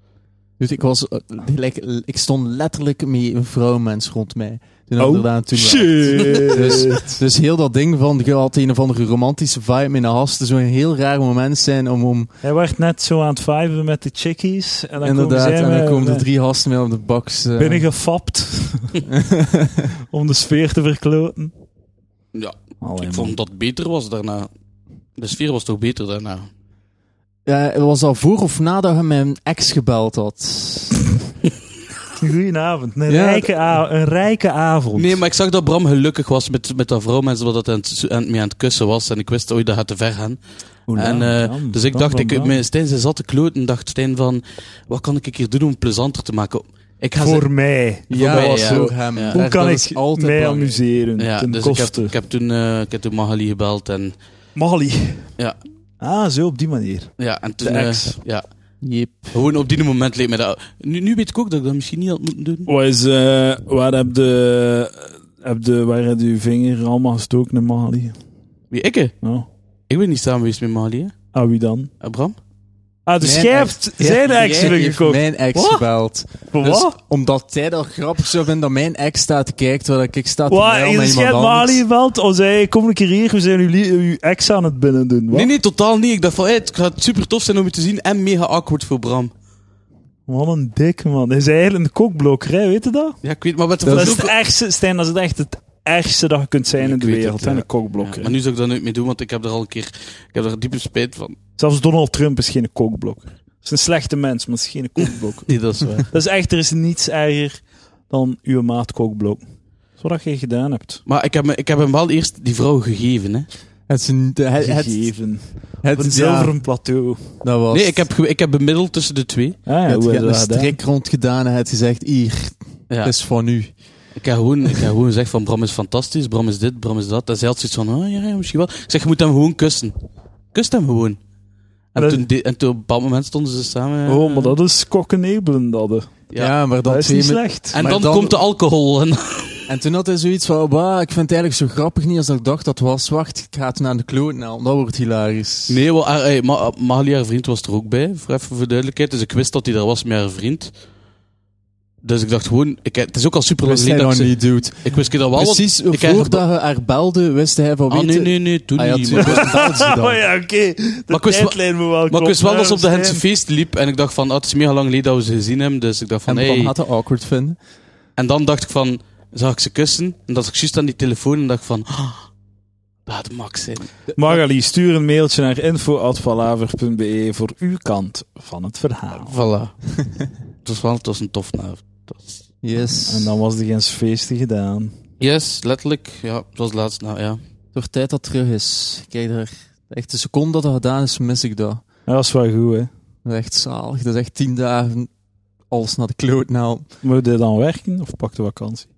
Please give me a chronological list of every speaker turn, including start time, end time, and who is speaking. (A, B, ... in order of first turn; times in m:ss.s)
0:00.6-0:12.3 A
0:05.0-0:07.2 B
0:12.4-0:16.2 B
0:15.0-0:17.9 A
0:17.6-0:19.0 B
0:19.1-0:19.9 A
0:20.1-0:21.5 B
0:22.3-0:24.5 C
0:22.8-0:23.4 B
0:25.2-0:26.5 C
0:27.5-0:31.0 A
0:32.2-0:35.2 B
0:33.1-0:33.8 A
0:35.0-0:40.4 C
0:40.9-0:42.6 B
0:41.0-0:47.5 C
0:47.2-0:52.1 B
0:48.1-0:50.8 A
0:48.1-0:49.4 C
0:51.2-0:54.1 C
0:54.6-0:55.3 B
0:56.0-0:58.2 B
0:57.2-0:58.4 C
0:58.8-0:59.4 A
0:59.3-1:02.7 C
1:02.7-1:08.1 B
1:08.7-1:09.1 C
1:09.2-1:09.5 B
1:09.9-1:11.1 C
1:11.3-1:11.9 B
1:12.0-1:12.4 C
1:13.1-1:15.7 B
1:13.2-1:21.8 A
1:16.5-1:17.0 B
1:20.5-1:25.5 B
1:25.3-1:29.3 C
1:30.3-1:33.2 B
1:33.2-1:34.3 C
1:33.8-1:34.1 A
1:33.9-1:38.3 B
1:36.8-1:41.4 C
1:41.6-1:49.4 B
1:45.5-1:46.1 C
1:50.0-1:51.0 B
1:51.1-1:53.5 C
1:53.9-1:55.1 A
1:54.6-1:57.4 B
1:55.8-1:56.5 A
1:57.4-1:58.1 A
1:57.7-1:59.6 C
1:59.7-2:00.8 B
1:59.9-2:03.8 A
2:04.2-2:09.9 C
2:10.5-2:11.2 C
2:11.9-2:14.6 C
2:12.0-2:12.2 B
2:14.1-2:16.1 B
2:16.4-2:18.4 A
2:16.8-2:17.8 B
2:17.7-2:19.6 C
2:19.7-2:25.8 A
2:25.7-2:30.7 C
2:32.0-2:36.4 C
2:33.6-2:40.2 A
2:37.9-2:39.5 C
2:39.2-2:43.2 B
2:41.1-2:46.7 C
2:46.3-2:47.6 A
2:48.2-2:52.3 C
2:53.1-2:54.0 C
2:54.2-2:59.3 B
2:59.1-2:59.8 C
3:00.6-3:02.5 C
3:02.6-3:03.4 A
3:03.1-3:04.9 B
3:05.2-3:07.4 C
3:07.7-3:11.8 A
3:12.1-3:12.9 B
3:13.2-3:15.1 A
3:15.7-3:16.9 A
3:17.0-3:18.9 B